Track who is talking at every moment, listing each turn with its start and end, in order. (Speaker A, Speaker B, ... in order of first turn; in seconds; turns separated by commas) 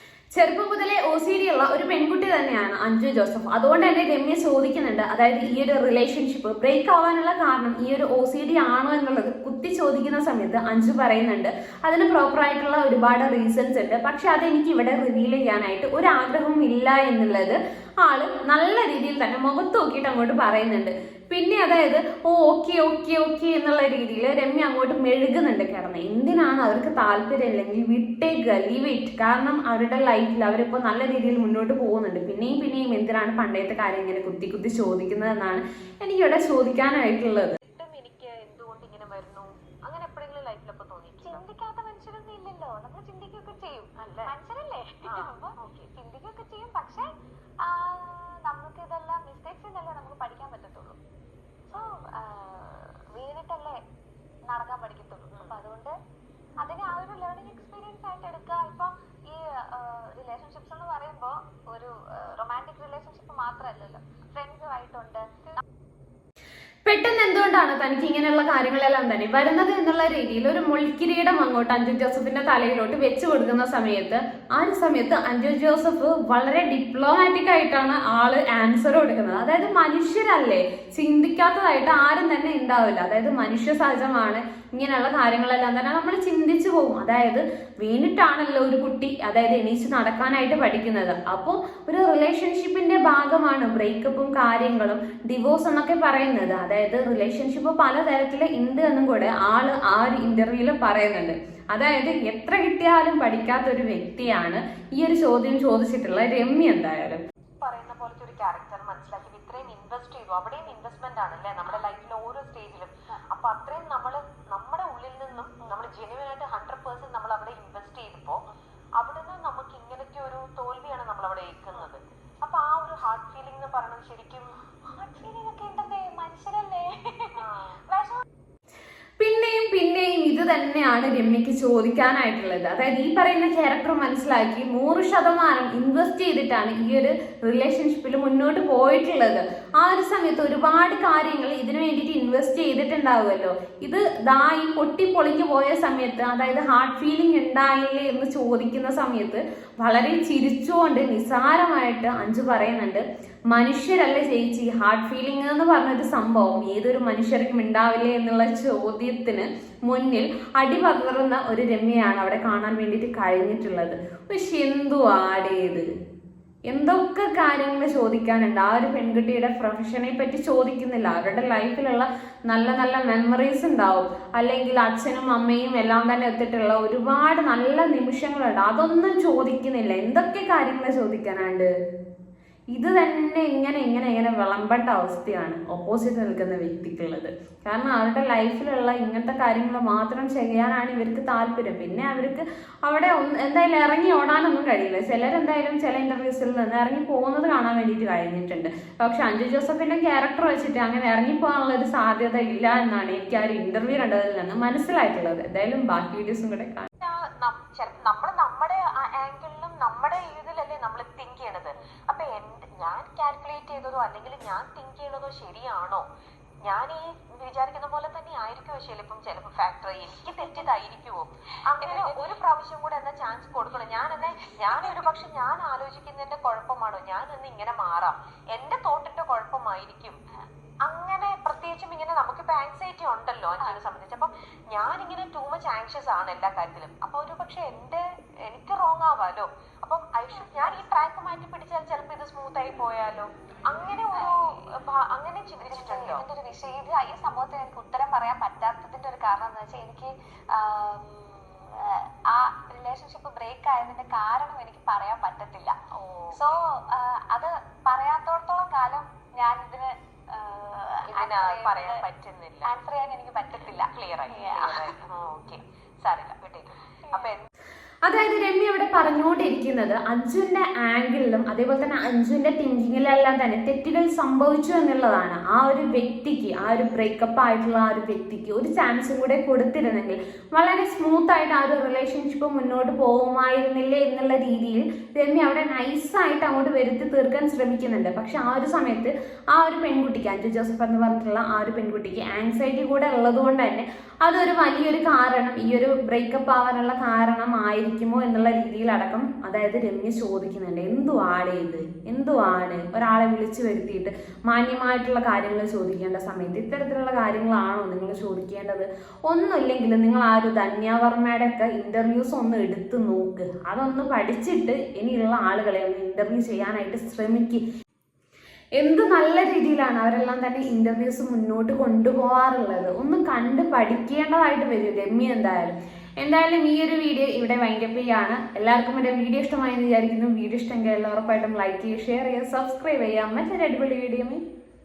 Speaker A: 0.3-37.6, Speaker B: 37.7-41.5, Speaker C: 41.2-47.1, Speaker B: 44.0-44.3, Speaker B: 45.0-45.9, Speaker C: 47.6-51.0, Speaker C: 51.7-53.8, Speaker B: 51.7-52.0, Speaker C: 54.5-55.9, Speaker B: 55.3-55.6, Speaker C: 56.6-65.6, Speaker A: 66.9-107.2, Speaker B: 107.6-118.4, Speaker C: 115.6-115.9, Speaker B: 119.0-124.5, Speaker C: 124.9-128.2, Speaker B: 127.4-127.8, Speaker A: 129.2-165.9, Speaker A: 166.7-181.7, Speaker A: 182.7-206.9, Speaker B: 207.0-216.1, Speaker B: 216.7-230.2, Speaker C: 221.8-222.3, Speaker C: 224.4-225.1, Speaker B: 230.8-246.2, Speaker C: 240.3-240.8, Speaker C: 245.6-255.8, Speaker B: 255.9-256.6, Speaker C: 256.3-262.0, Speaker B: 261.1-262.7, Speaker C: 262.6-264.9, Speaker B: 263.5-267.5, Speaker A: 268.1-317.6, Speaker A: 318.8-334.4